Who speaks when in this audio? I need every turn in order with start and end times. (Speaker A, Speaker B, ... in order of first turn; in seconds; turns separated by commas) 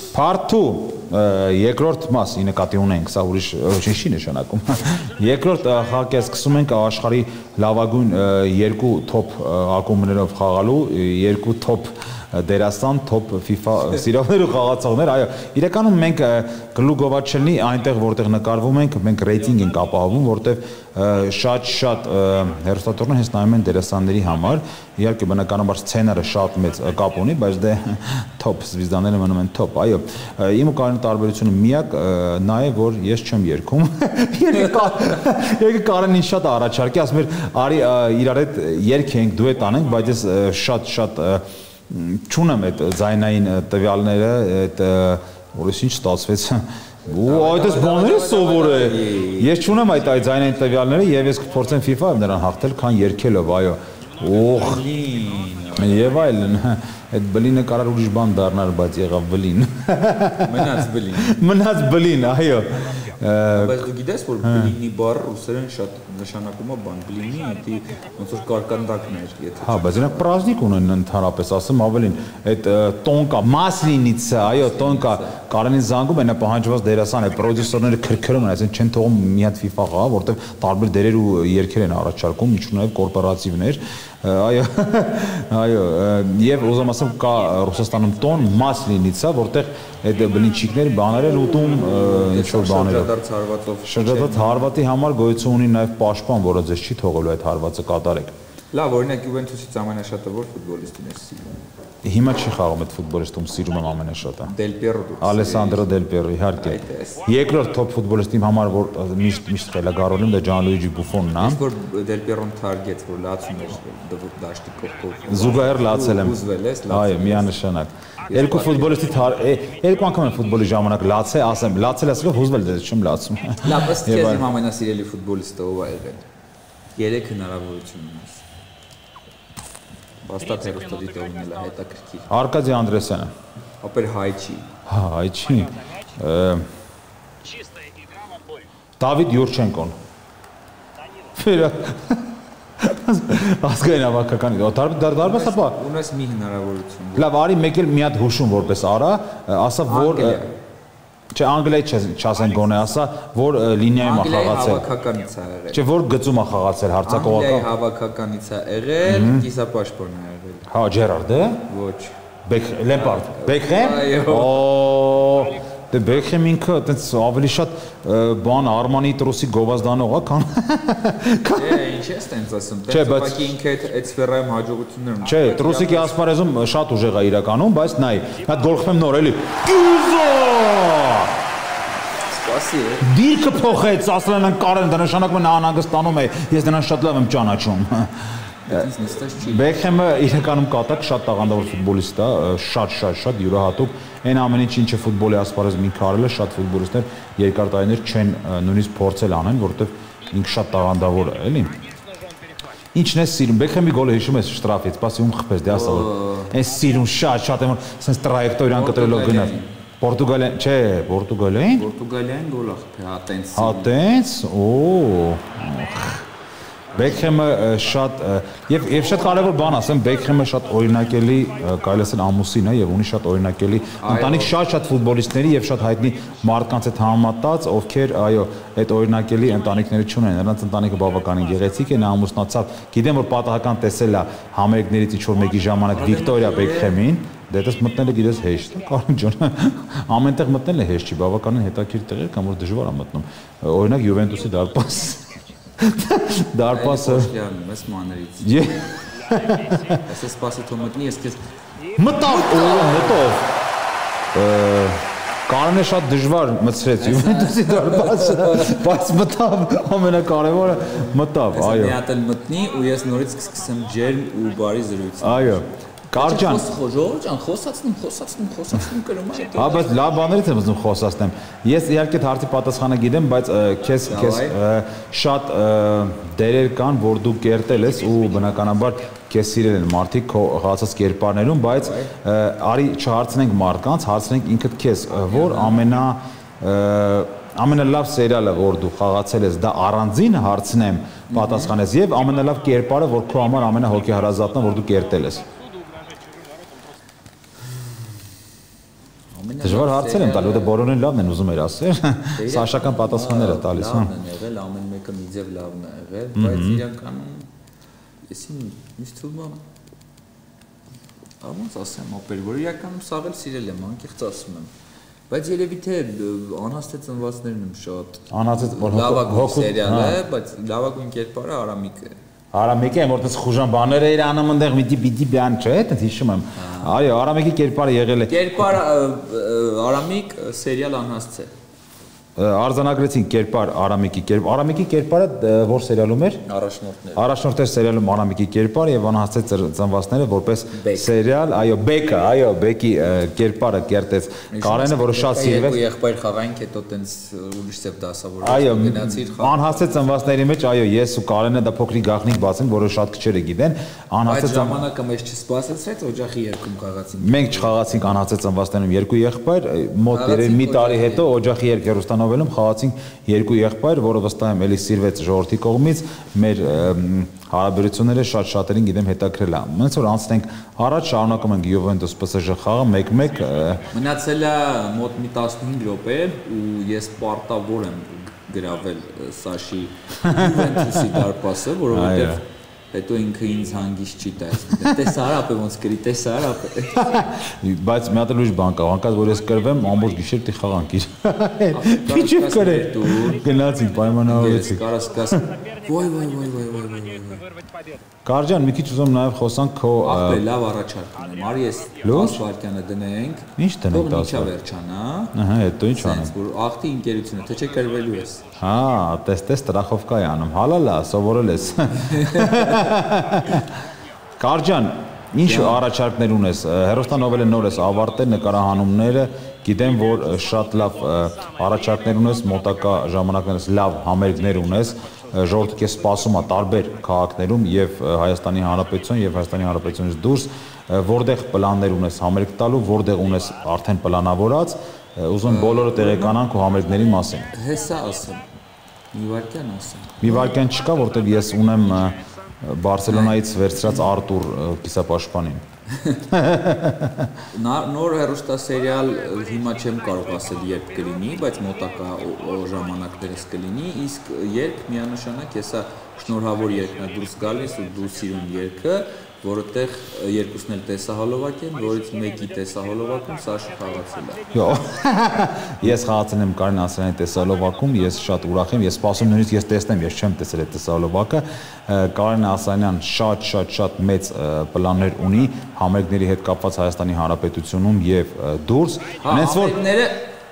Speaker A: 0.1-54.8, Speaker B: 47.1-49.6, Speaker B: 54.6-56.2, Speaker A: 55.8-63.9, Speaker B: 60.4-61.4, Speaker B: 63.5-70.3, Speaker A: 64.4-64.7, Speaker A: 69.6-93.1, Speaker B: 74.4-75.4, Speaker B: 91.6-94.7, Speaker A: 93.9-98.3, Speaker B: 98.7-101.6, Speaker A: 102.0-104.5, Speaker B: 104.5-105.9, Speaker A: 105.2-111.6, Speaker B: 106.6-107.2, Speaker B: 111.4-117.5, Speaker A: 115.3-116.4, Speaker A: 116.9-124.4, Speaker B: 118.3-119.2, Speaker B: 123.6-126.2, Speaker B: 127.0-128.4, Speaker B: 130.2-132.3, Speaker A: 132.3-133.3, Speaker B: 133.8-134.7, Speaker A: 134.9-136.7, Speaker A: 139.0-140.0, Speaker A: 141.3-145.8, Speaker B: 145.2-147.3, Speaker A: 147.2-150.4, Speaker B: 149.9-150.5, Speaker A: 151.3-154.8, Speaker B: 154.0-155.8, Speaker A: 155.7-157.7, Speaker B: 157.1-160.7, Speaker A: 159.0-159.4, Speaker A: 160.7-161.6, Speaker B: 161.7-162.2, Speaker A: 162.5-171.8, Speaker B: 162.9-164.7, Speaker B: 171.5-176.2, Speaker A: 172.9-173.5, Speaker A: 175.2-181.3, Speaker B: 182.2-183.1, Speaker A: 183.0-201.8, Speaker B: 188.7-189.7, Speaker A: 202.9-211.8, Speaker B: 205.7-206.5, Speaker B: 208.7-209.7, Speaker B: 211.8-213.9, Speaker A: 213.6-216.3, Speaker A: 216.9-247.3, Speaker B: 219.1-219.5, Speaker B: 224.0-224.5, Speaker B: 235.9-237.0, Speaker B: 246.7-248.7, Speaker A: 248.4-250.0, Speaker B: 250.1-251.4, Speaker A: 252.0-253.5, Speaker B: 252.2-253.3, Speaker A: 254.3-262.0, Speaker B: 257.0-258.8, Speaker B: 260.7-265.6, Speaker A: 265.2-266.6, Speaker B: 266.2-270.0, Speaker A: 269.6-295.4, Speaker B: 274.1-274.6, Speaker B: 281.7-282.1, Speaker B: 285.3-285.8, Speaker B: 291.3-291.8, Speaker B: 299.3-300.8, Speaker A: 299.6-304.1, Speaker B: 302.4-307.5, Speaker A: 306.4-306.8, Speaker B: 308.3-309.6, Speaker B: 311.4-314.7, Speaker B: 315.3-322.2, Speaker A: 318.3-320.2, Speaker A: 322.5-328.7, Speaker B: 326.6-327.0, Speaker B: 328.3-331.5, Speaker A: 332.4-336.4, Speaker B: 336.4-337.3, Speaker A: 337.1-345.8, Speaker B: 340.7-341.1, Speaker B: 344.5-350.3, Speaker A: 348.4-354.8, Speaker B: 354.3-358.2, Speaker A: 357.2-373.9, Speaker B: 360.1-361.3, Speaker B: 373.9-382.4, Speaker A: 380.2-381.1, Speaker A: 381.9-382.4, Speaker B: 382.9-387.2, Speaker A: 387.0-395.4, Speaker B: 391.7-393.5, Speaker B: 394.3-397.5, Speaker A: 398.2-400.4, Speaker B: 400.0-405.4, Speaker A: 402.0-402.4, Speaker A: 403.6-404.5, Speaker A: 405.3-406.3, Speaker B: 405.9-408.4, Speaker A: 408.6-413.7, Speaker B: 411.9-413.0, Speaker A: 414.4-437.5, Speaker B: 415.4-415.8, Speaker B: 435.5-436.4, Speaker B: 437.5-438.4, Speaker B: 439.1-440.5, Speaker A: 440.2-445.6, Speaker B: 443.1-444.1, Speaker B: 445.9-446.2, Speaker A: 446.3-447.3, Speaker B: 447.5-464.5, Speaker A: 464.5-479.8, Speaker B: 479.2-480.3